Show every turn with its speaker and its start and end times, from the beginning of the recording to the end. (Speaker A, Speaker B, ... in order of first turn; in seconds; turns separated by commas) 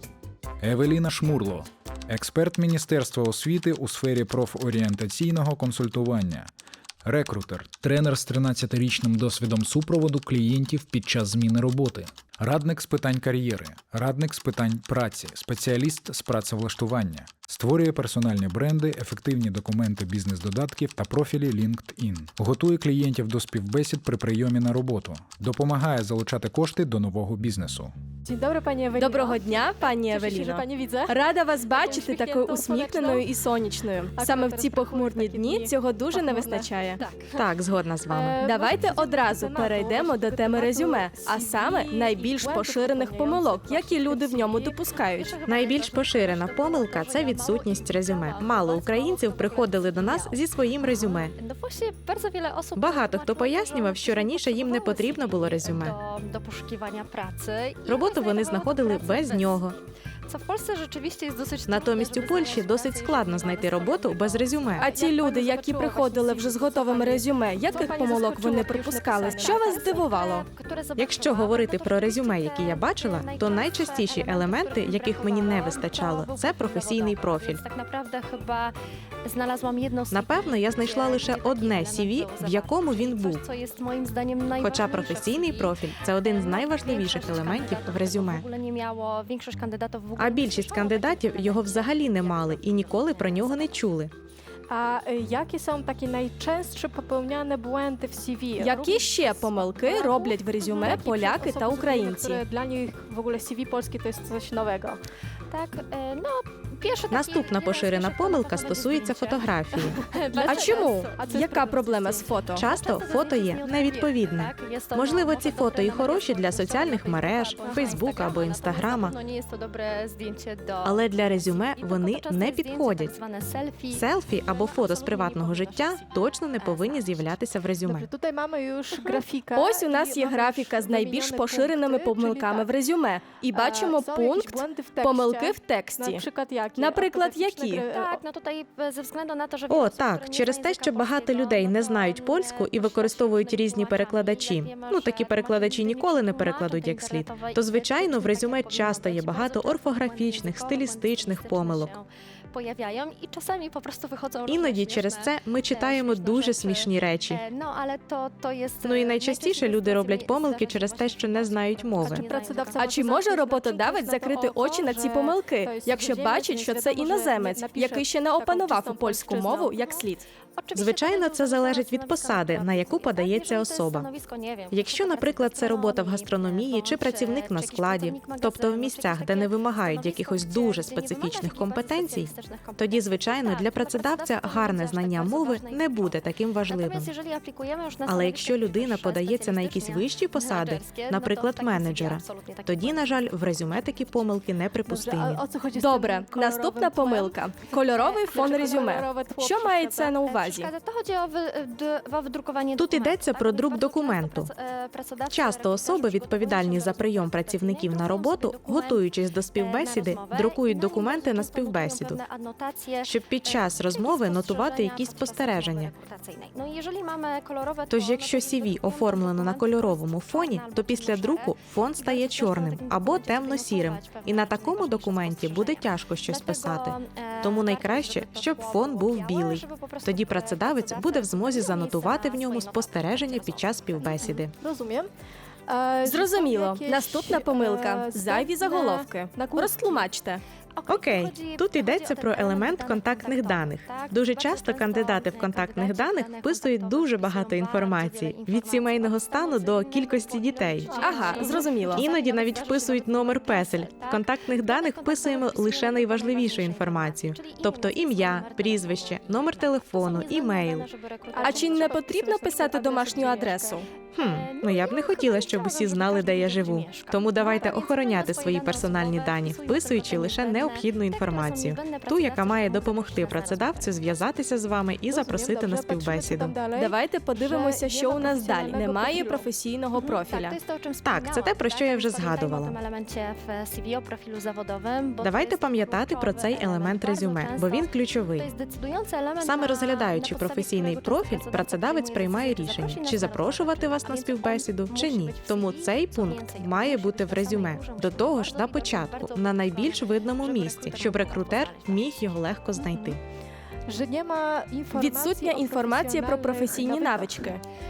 Speaker A: 0.6-6.5, Speaker A: 7.0-27.9, Speaker B: 28.2-33.3, Speaker C: 29.0-37.0, Speaker B: 34.1-36.9, Speaker D: 37.0-37.5, Speaker E: 37.4-38.4, Speaker B: 38.1-44.8, Speaker C: 38.4-45.4, Speaker D: 44.9-59.7, Speaker E: 45.5-51.3, Speaker E: 52.8-56.0, Speaker E: 57.9-59.8, Speaker D: 60.3-64.9, Speaker E: 61.7-64.9, Speaker C: 64.8-70.5, Speaker B: 64.8-69.7, Speaker D: 66.6-67.0, Speaker D: 69.4-93.9, Speaker E: 71.0-77.6, Speaker E: 80.1-83.5, Speaker E: 84.6-88.5, Speaker E: 90.2-94.1, Speaker B: 94.7-105.0, Speaker C: 98.6-102.4, Speaker D: 105.5-111.3, Speaker E: 107.1-110.0, Speaker B: 110.3-112.3, Speaker C: 110.3-112.7, Speaker D: 112.1-127.4, Speaker E: 112.5-119.2, Speaker B: 117.5-118.0, Speaker E: 120.8-123.1, Speaker E: 123.9-128.1, Speaker B: 127.8-132.7, Speaker C: 128.9-136.3, Speaker B: 133.5-138.2, Speaker C: 136.8-137.8, Speaker D: 137.7-162.8, Speaker E: 139.7-151.9, Speaker E: 154.5-157.4, Speaker E: 158.8-162.2, Speaker B: 162.1-170.0, Speaker C: 162.8-170.3, Speaker D: 170.6-194.5, Speaker E: 170.7-174.1, Speaker E: 174.7-187.1, Speaker E: 188.1-195.4, Speaker B: 194.8-200.2, Speaker C: 195.8-200.7, Speaker D: 200.2-234.5, Speaker E: 202.8-204.5, Speaker E: 205.3-212.2, Speaker E: 213.0-215.9, Speaker E: 217.9-234.5, Speaker B: 234.6-235.1, Speaker B: 235.7-240.1, Speaker C: 236.1-240.4, Speaker D: 240.7-261.9, Speaker E: 240.9-260.9, Speaker B: 250.9-251.6, Speaker C: 251.0-252.1, Speaker B: 261.3-263.8, Speaker C: 261.4-263.9, Speaker D: 264.0-274.3, Speaker E: 264.1-276.6, Speaker B: 275.1-279.5, Speaker C: 276.7-280.6, Speaker D: 279.9-303.1, Speaker E: 281.0-282.8, Speaker E: 285.2-288.5, Speaker E: 289.4-303.2, Speaker B: 303.9-307.6, Speaker C: 304.9-307.6